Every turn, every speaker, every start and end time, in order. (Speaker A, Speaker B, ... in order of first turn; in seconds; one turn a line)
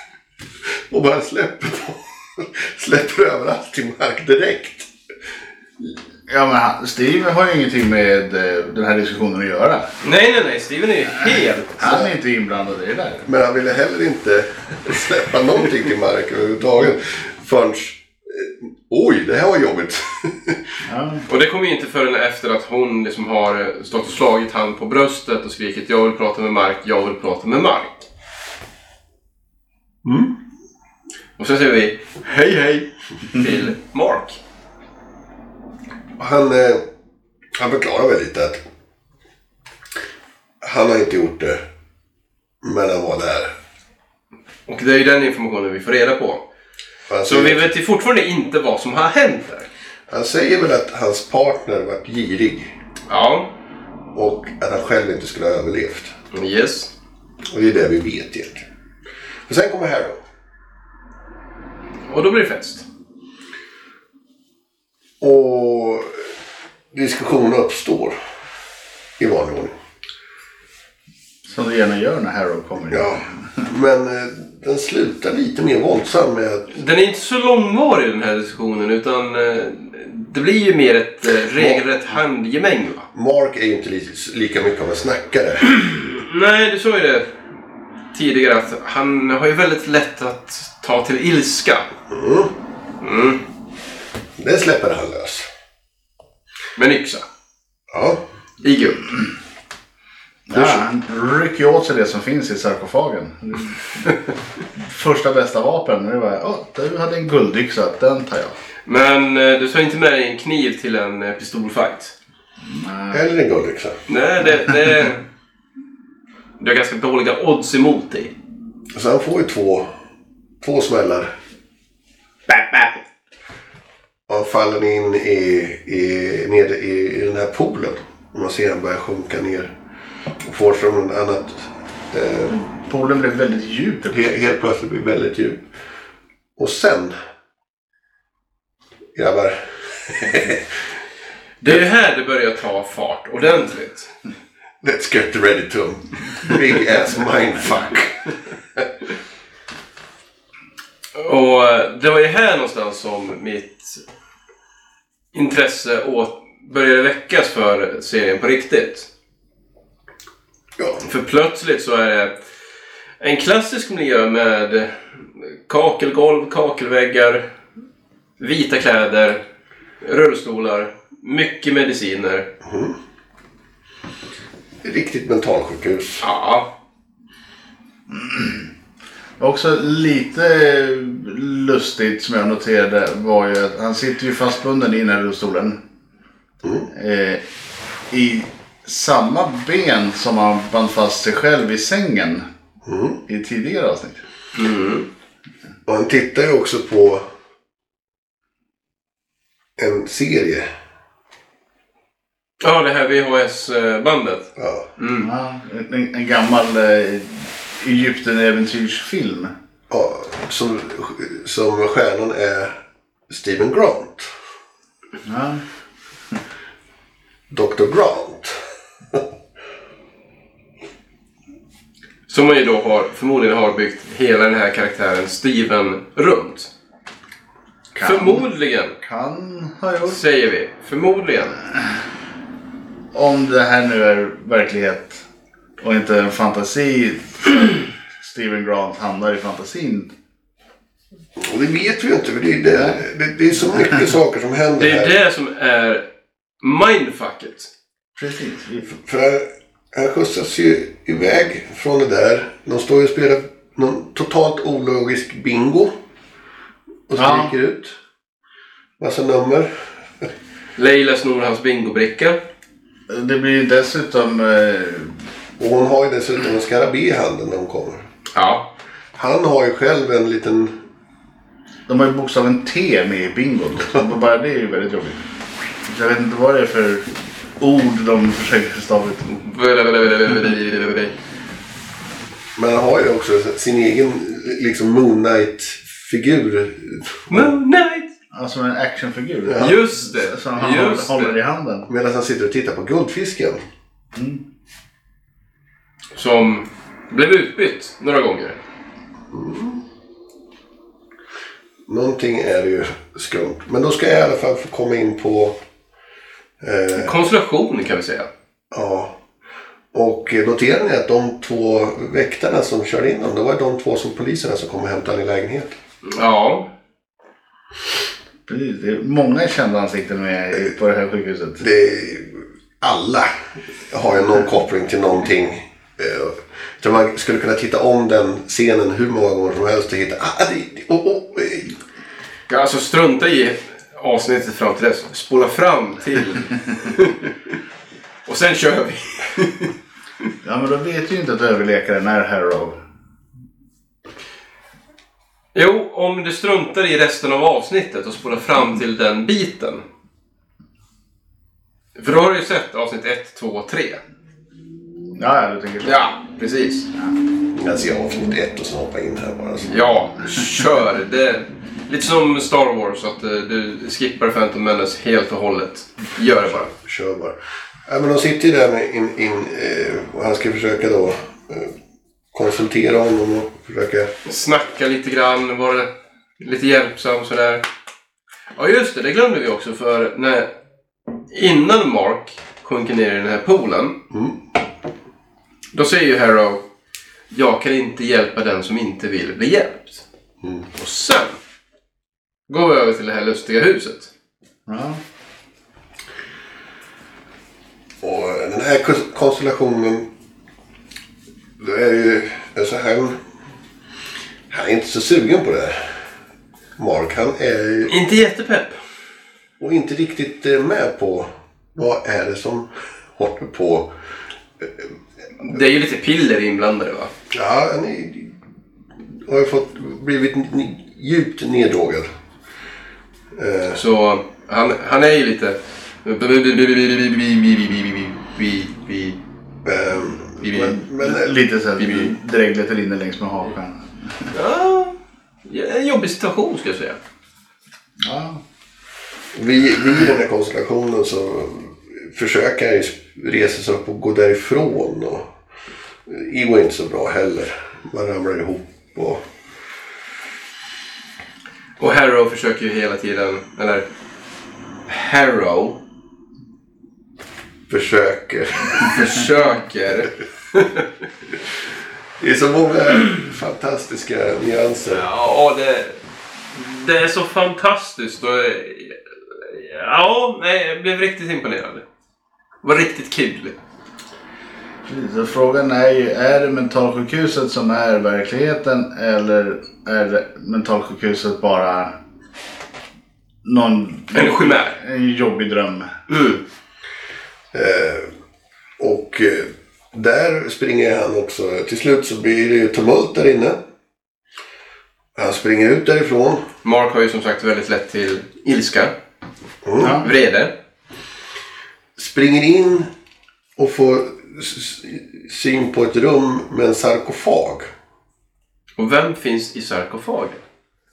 Speaker A: 0.7-4.9
Speaker B: 6.3-9.9
Speaker C: 10.0-11.8
Speaker B: 11.8-13.3
Speaker A: 11.8-12.1
Speaker A: 13.3-20.6
Speaker B: 20.9-21.3
Speaker C: 21.3-28.0
Speaker A: 30.0-30.3
Speaker C: 31.4-34.4
Speaker A: 36.2-36.8
Speaker A: 37.6-38.6
Speaker A: 40.6-41.6
Speaker A: 42.6-43.5
Speaker C: 44.7-46.4
Speaker A: 47.1-47.7
Speaker C: 47.3-49.7
Speaker A: 50.1-52.7
Speaker C: 53.1-53.5
Speaker A: 54.1-56.1
Speaker C: 56.3-56.9
Speaker A: 57.5-58.6
Speaker A: 59.5-60.2
Speaker C: 62.1-62.9
Speaker A: 65.2-66.3
Speaker A: 66.9-68.2
Speaker A: 69.2-69.7
Speaker B: 71.5-73.7
Speaker A: 72.9-76.7
Speaker C: 76.7-83.1
Speaker A: 81.5-81.8
Speaker A: 83.1-85.7
Speaker C: 85.8-87.3
Speaker C: 88.1-91.9
Speaker A: 92.1-92.5
Speaker C: 93.0-93.4
Speaker A: 94.4-95.5
Speaker C: 96.8-97.2
Speaker A: 97.9-98.2
Speaker C: 98.6-99.1
Speaker B: 100.5-104.1
Speaker B: 104.8-108.6
Speaker C: 108.9-112.1
Speaker B: 112.7-113.2
Speaker A: 113.1-114.0
Speaker C: 114.1-115.2
Speaker C: 116.6-118.3
Speaker A: 118.9-119.9
Speaker A: 120.6-121.3
Speaker C: 122.5-123.0
Speaker A: 124.3-129.7
Speaker A: 130.4-132.6
Speaker B: 132.6-134.5
Speaker A: 134.1-135.6
Speaker A: 136.6-137.2
Speaker A: 139.2-140.8
Speaker C: 141.6-144.1
Speaker A: 144.8-148.9
Speaker C: 151.2-154.0
Speaker C: 155.3-159.1
Speaker A: 160.8-161.0
Speaker C: 161.0-162.3
Speaker C: 163.2-167.4
Speaker C: 168.4-169.4
Speaker C: 170.0-172.5
Speaker A: 172.6-173.0
Speaker A: 174.8-176.2
Speaker C: 176.2-176.7
Speaker B: 178.1-178.7
Speaker B: 179.4-185.8
Speaker B: 186.9-187.4
Speaker B: 188.1-192.5
Speaker A: 192.8-193.2
Speaker B: 193.3-194.2
Speaker C: 194.6-195.1
Speaker A: 195.9-197.3
Speaker A: 199.8-200.7
Speaker C: 202.6-205.3
Speaker A: 204.6-204.9
Speaker B: 205.2-209.5
Speaker A: 209.9-212.8
Speaker A: 213.3-214.3
Speaker B: 215.2-215.6
Speaker A: 217.5-219.2
Speaker C: 222.3-226.7
Speaker B: 228.0-228.4
Speaker C: 228.0-228.9
Speaker B: 229.0-230.2
Speaker C: 230.1-231.6
Speaker B: 233.1-235.2
Speaker B: 235.8-240.1
Speaker A: 241.4-245.1
Speaker C: 244.8-246.1
Speaker C: 246.6-247.7
Speaker B: 248.2-248.9
Speaker A: 248.9-255.9
Speaker A: 257.1-258.0
Speaker B: 257.2-257.5
Speaker A: 259.0-260.3
Speaker C: 260.8-262.4
Speaker B: 263.1-265.2
Speaker A: 265.6-268.1
Speaker C: 268.4-268.7
Speaker A: 269.1-270.7
Speaker B: 271.9-275.2
Speaker B: 275.9-277.1
Speaker B: 277.6-279.3
Speaker C: 279.3-281.1
Speaker A: 282.6-287.5
Speaker C: 287.3-288.1
Speaker B: 288.3-291.9
Speaker A: 289.4-289.8
Speaker C: 289.6-291.4
Speaker A: 291.9-293.6
Speaker B: 294.1-294.4
Speaker C: 296.1-298.6
Speaker A: 299.3-299.8
Speaker A: 301.9-305.6
Speaker A: 306.6-307.2
Speaker C: 306.9-308.3
Speaker A: 308.7-309.1
Speaker A: 309.9-315.7
Speaker C: 316.0-316.7
Speaker B: 318.5-321.6
Speaker A: 321.6-323.3
Speaker A: 323.9-331.8
Speaker C: 332.5-337.4
Speaker C: 338.3-339.7
Speaker B: 340.4-342.8
Speaker C: 345.6-349.8
Speaker C: 352.0-354.0
Speaker B: 355.2-355.9
Speaker C: 355.9-356.9
Speaker A: 357.5-359.7
Speaker C: 359.7-366.7
Speaker A: 366.8-371.7
Speaker A: 372.3-374.1
Speaker C: 374.2-375.9
Speaker C: 376.4-377.6
Speaker C: 378.6-380.5
Speaker C: 381.3-384.0
Speaker A: 384.1-384.4
Speaker C: 385.7-386.6
Speaker C: 387.3-390.0
Speaker C: 390.7-391.4
Speaker C: 392.5-394.1
Speaker B: 394.7-395.0
Speaker A: 398.0-400.1
Speaker A: 401.6-403.2
Speaker A: 404.5-406.0
Speaker A: 406.8-407.9
Speaker C: 407.9-408.8
Speaker A: 409.6-413.9
Speaker C: 415.4-417.1
Speaker A: 417.3-418.4
Speaker A: 419.2-422.1
Speaker A: 423.4-423.8
Speaker C: 423.7-429.2
Speaker A: 429.6-431.3
Speaker C: 430.4-430.7
Speaker B: 431.0-434.3
Speaker C: 431.8-432.1
Speaker C: 434.3-437.0
Speaker B: 438.0-438.4
Speaker A: 439.3-445.3
Speaker A: 446.1-449.2
Speaker C: 451.8-453.9
Speaker C: 454.9-455.8
Speaker A: 457.7-459.0
Speaker C: 458.8-460.9
Speaker A: 462.2-465.1
Speaker C: 464.9-466.0
Speaker C: 466.5-471.8
Speaker C: 472.6-473.6
Speaker B: 474.9-481.9
Speaker B: 483.4-485.9
Speaker C: 484.1-484.8
Speaker C: 486.1-486.4
Speaker A: 487.5-488.1
Speaker A: 488.8-493.6
Speaker A: 495.1-496.4
Speaker C: 496.6-498.9
Speaker A: 499.6-500.0
Speaker B: 499.8-500.1
Speaker C: 499.8-500.5
Speaker A: 502.0-502.9
Speaker A: 503.6-507.7
Speaker C: 508.8-510.4